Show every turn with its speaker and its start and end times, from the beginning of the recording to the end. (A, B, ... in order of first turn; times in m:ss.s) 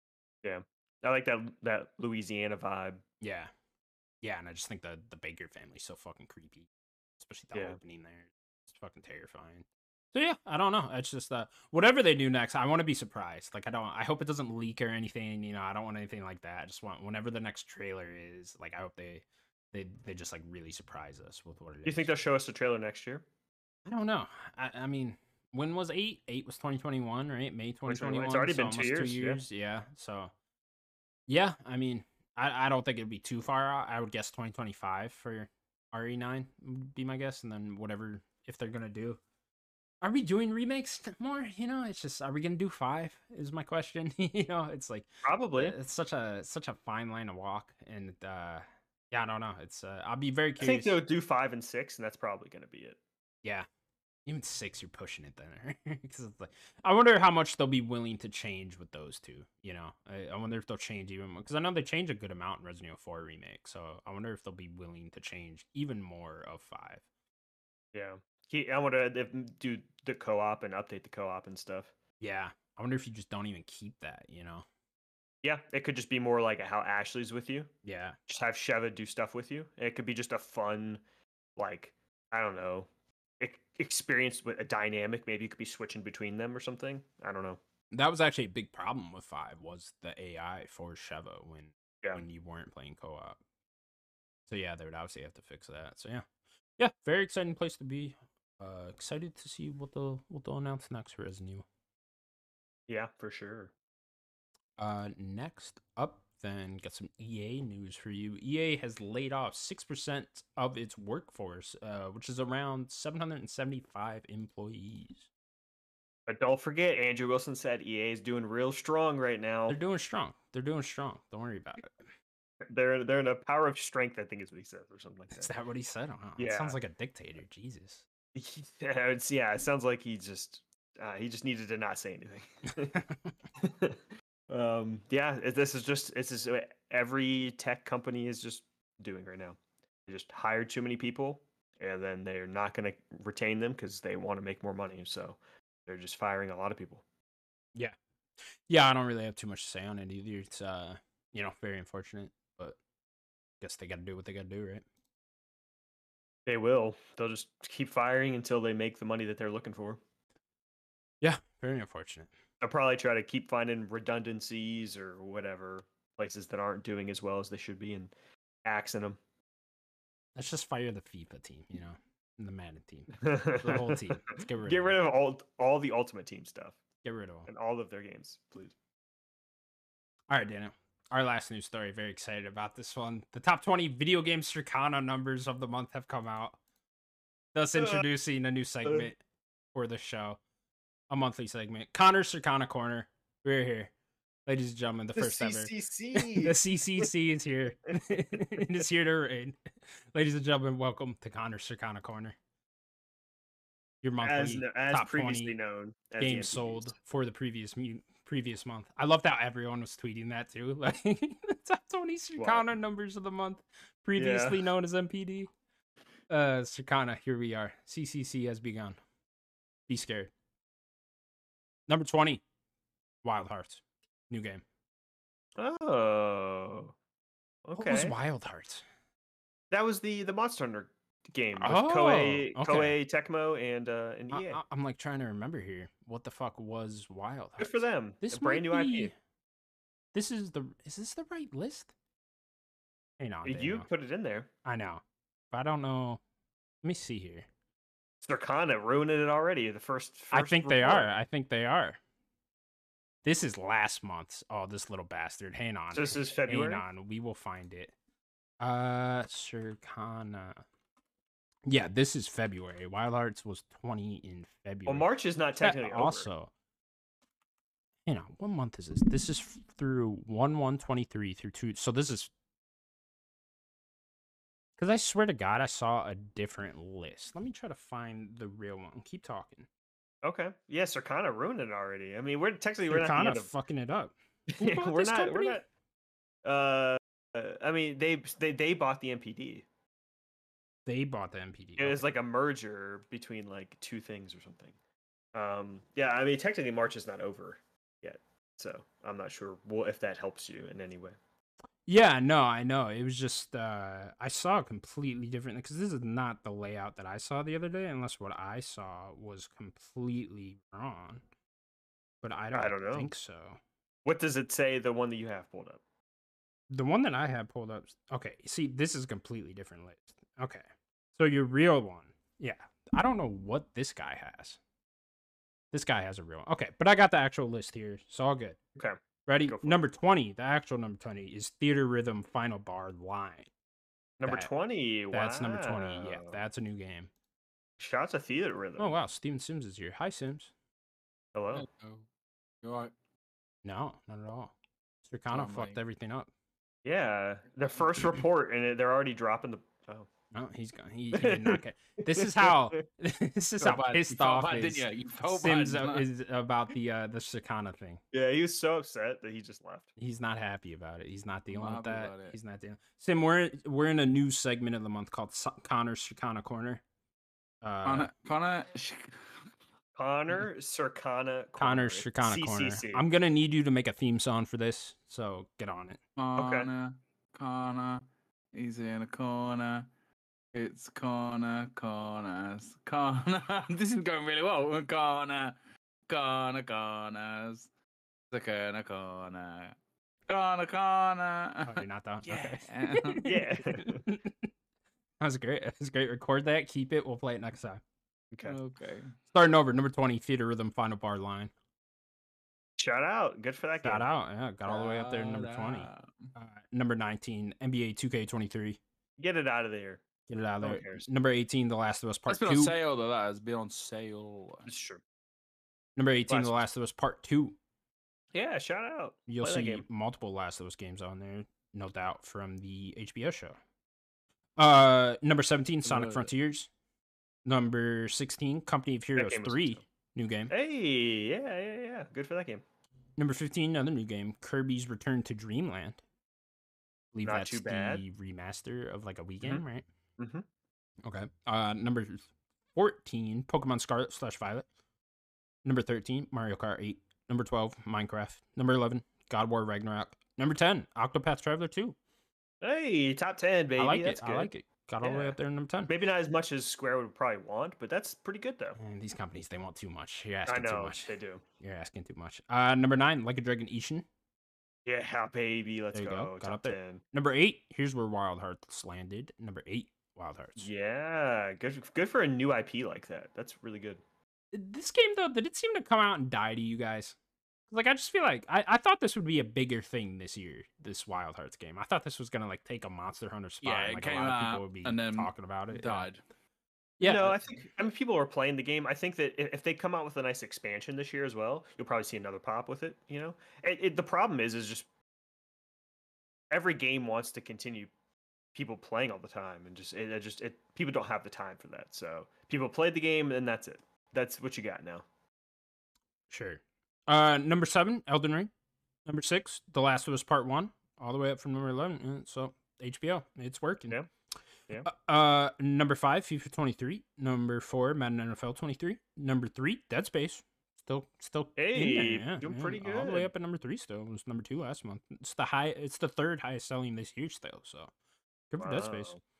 0:00.4-0:03.0 A
0:03.2-0:03.5 B
0:04.2-0:22.1 B
0:21.8-0:23.2 A
0:23.8-0:30.3 B
0:27.9-0:29.4 A
0:31.3-0:39.2 B
0:40.0-0:51.0 B
0:45.2-0:45.8 A
0:50.6-0:53.0 A
0:54.2-1:07.0 B
1:07.9-1:11.9 A
1:12.2-1:14.6 B
1:15.4-1:17.7 A
1:17.8-1:18.2 B
1:18.3-1:21.0 A
1:21.6-1:22.9 A
1:23.4-1:27.6 A
1:27.9-1:33.4 B
1:34.5-1:36.2 B
1:36.8-1:41.6 B
1:42.9-1:43.7 A
1:44.8-1:55.3 B
1:56.3-1:59.8 A
1:59.7-2:02.0 B
2:02.6-2:05.5 A
2:05.3-2:08.0 B
2:06.4-2:06.8 A
2:08.3-2:13.0 A
2:12.9-2:13.3 B
2:13.6-2:27.0 A
2:28.7-2:32.8 B
2:33.6-2:34.8 B
2:36.4-2:40.0 A
2:41.2-2:42.3 B
2:42.6-2:48.1 A
2:48.6-2:49.2 A
2:50.3-2:55.0 B
2:53.1-2:56.8 A
2:57.0-2:57.5 B
2:57.4-2:58.7 A
3:00.3-3:06.6 B
3:07.5-3:09.2 B
3:07.8-3:08.0 A
3:09.7-3:10.4 B
3:11.1-3:13.9 B
3:14.4-3:22.4 B
3:15.2-3:17.1 A
3:24.0-3:25.5 B
3:24.2-3:26.9 A
3:26.2-3:35.5 B
3:32.4-3:32.7 A
3:34.2-3:34.6 A
3:36.3-3:39.0 B
3:39.9-3:40.3 B
3:41.9-3:42.4 B
3:43.2-3:44.6 B
3:45.6-3:46.9 A
3:47.6-3:48.1 A
3:47.8-3:48.8 B
3:49.7-3:54.6 A
3:51.6-3:53.0 B
3:54.3-3:59.1 B
3:57.6-3:59.1 A
4:00.1-4:01.9 B
4:03.2-4:03.9 B
4:03.4-4:04.5 A
4:04.6-4:06.2 B
4:06.8-4:07.5 B
4:08.2-4:11.1 A
4:10.3-4:12.0 B
4:13.2-4:17.9 B
4:15.9-4:16.8 A
4:18.6-4:20.6 B
4:21.6-4:25.1 B
4:24.8-4:26.3 A
4:25.6-4:26.5 B
4:28.0-4:32.3 B
4:34.8-4:39.7 B
4:40.2-4:43.5 A
4:42.9-4:45.6 B
4:44.5-4:45.6 A
4:46.4-4:49.6 A
4:50.8-4:52.1 B
4:51.8-4:54.7 A
4:55.3-5:01.2 A
5:01.9-5:11.2 B
5:12.2-5:13.6 B
5:12.5-5:13.1 A
5:14.0-5:15.8 A
5:16.7-5:20.6 B
5:21.2-5:24.6 B
5:25.7-5:28.6 B
5:28.8-5:29.8 A
5:29.3-5:33.5 B
5:34.2-5:36.4 A
5:34.2-5:34.5 B
5:35.1-5:37.1 B
5:37.8-5:39.0 A
5:38.8-5:40.5 B
5:41.3-5:41.6 A
5:41.5-5:42.0 C
5:42.6-5:42.9 C
5:43.6-5:44.5 B
5:45.0-5:46.3 B
5:45.3-5:45.8 C
5:46.8-5:50.1 A
5:50.3-5:58.0 B
5:51.1-5:52.8 A
5:53.6-5:56.0 C
5:58.1-5:59.9 A
6:00.0-6:06.8 B
6:01.5-6:02.4 C
6:07.6-6:08.1 B
6:07.8-6:09.4 C
6:10.0-6:13.0 A
6:11.6-6:16.0 B
6:16.2-6:18.0 C
6:16.4-6:16.7 A
6:18.5-6:19.9 C
6:20.5-6:25.5 C
6:26.1-6:27.7 C
6:28.3-6:29.7 C
6:30.3-6:33.2 C
6:31.6-6:34.5 B
6:33.2-6:34.0 A
6:35.2-6:37.8 B
6:38.3-6:38.6 A
6:38.4-6:39.1 C
6:39.3-6:41.5 B
6:42.8-6:44.0 A
6:43.8-6:48.8 B
6:44.6-6:46.3 C
6:49.2-6:50.0 A
6:50.3-6:52.7 B
6:50.6-6:51.0 A
6:52.3-6:54.7 C
6:54.6-6:55.0 A
6:56.0-6:57.6 B
6:56.3-6:56.6 A
6:58.3-6:59.8 A
6:59.3-7:03.6 B
7:04.6-7:06.7 B
7:05.8-7:06.3 C
7:07.4-7:10.5 B
7:09.2-7:09.8 A
7:10.5-7:12.6 A
7:13.2-7:16.0 B
7:17.1-7:19.8 B
7:17.2-7:18.0 A
7:20.2-7:20.4 A
7:21.0-7:24.6 B
7:25.6-7:32.0 B
7:32.6-7:38.8 A
7:33.8-7:35.9 B
7:38.8-7:44.0 B
7:40.5-7:41.4 A
7:44.8-7:47.0 A
7:45.9-7:50.7 B
7:50.6-7:54.0 A
7:54.5-7:57.2 B
7:57.7-8:06.1 B
8:03.6-8:06.2 C
8:07.0-8:07.4 B
8:07.0-8:14.8 A
8:16.5-8:17.9 A
8:18.5-8:25.0 A
8:26.3-8:28.5 B
8:29.0-8:34.0 B
8:34.8-8:47.9 B
8:41.6-8:43.3 A
8:48.5-8:49.1 B
8:48.6-8:49.2 A